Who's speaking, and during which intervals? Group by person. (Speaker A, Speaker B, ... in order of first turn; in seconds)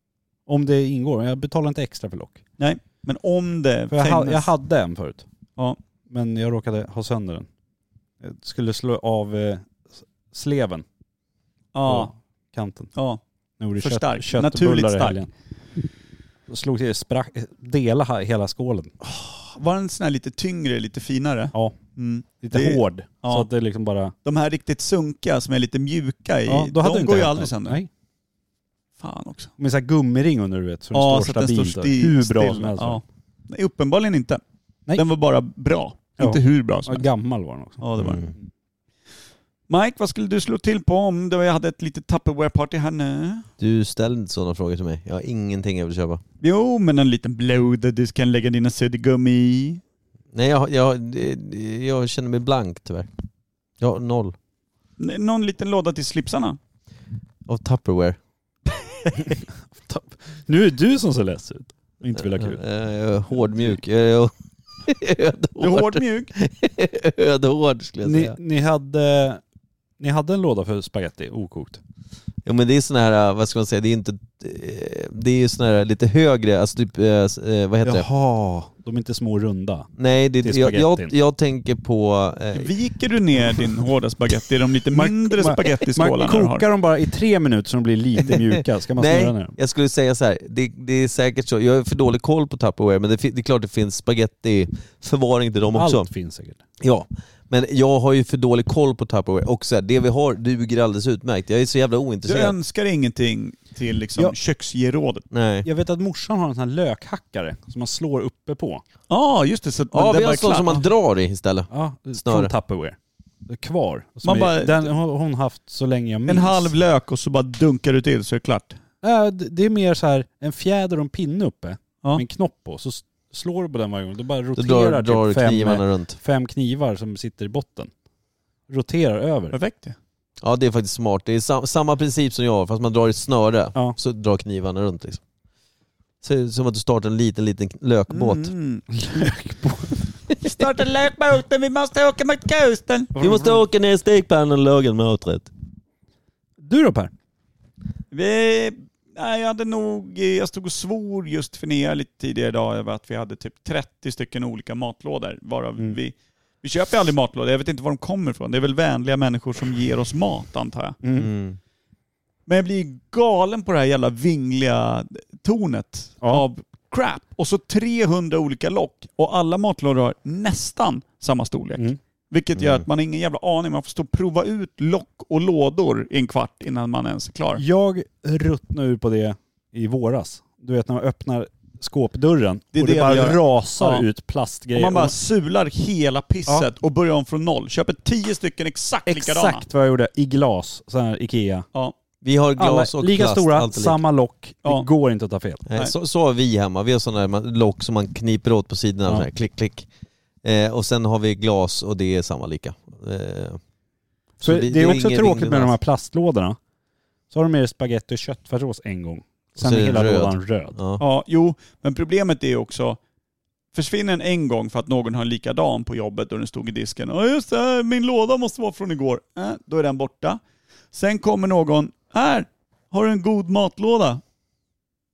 Speaker A: 0.5-2.4, 3.9-5.3, 6.1-7.5, 8.2-10.8, 11.8-12.9, 13.6-15.3, 16.5-18.9, 22.4-24.1, 26.5-27.9, 29.6-33.0, 36.2-37.9, 59.8-62.6, 68.0-69.4, 70.0-71.8, 77.8-79.9, 80.4-81.1, 84.9-89.5, 95.7-96.6, 105.7-108.8, 111.7-116.7, 119.0-127.9, 128.7-129.6, 138.9-140.0, 143.2-143.6, 146.6-147.1, 161.0-161.3, 177.6-185.2, 189.1-191.7, 192.6-195.6, 204.4-206.6, 207.3-210.8
Speaker B: 2.6-4.5, 11.7-12.1, 12.9-13.2, 13.8-15.2, 19.0-23.5, 24.2-27.8, 29.0-29.5, 30.9-34.4, 35.0-37.1, 37.8-38.2, 39.7-43.5, 46.4-49.8, 55.0-56.6, 65.6-66.3, 82.5-86.7, 102.3-105.3, 109.1-110.8, 114.2-114.9, 116.3-118.8, 129.5-130.0, 138.1-139.3, 140.4-143.2, 148.1-161.0, 162.5-177.6, 182.8-184.1, 184.7-189.7, 211.0-213.0, 213.7-220.4, 220.9-224.2
Speaker C: 38.0-38.4, 43.6-46.2, 50.3-53.1, 53.8-54.4, 57.5-58.2, 62.2-68.4, 72.5-78.1, 80.0-82.7, 89.0-96.1, 96.8-102.6, 105.3-105.7, 109.9-112.5, 124.6-126.2, 130.4-135.2, 136.2-138.5, 143.2-145.5, 161.2-161.6, 172.6-172.8, 192.2-194.0, 195.7-199.9, 200.4-203.6, 204.4-205.8, 209.6-211.0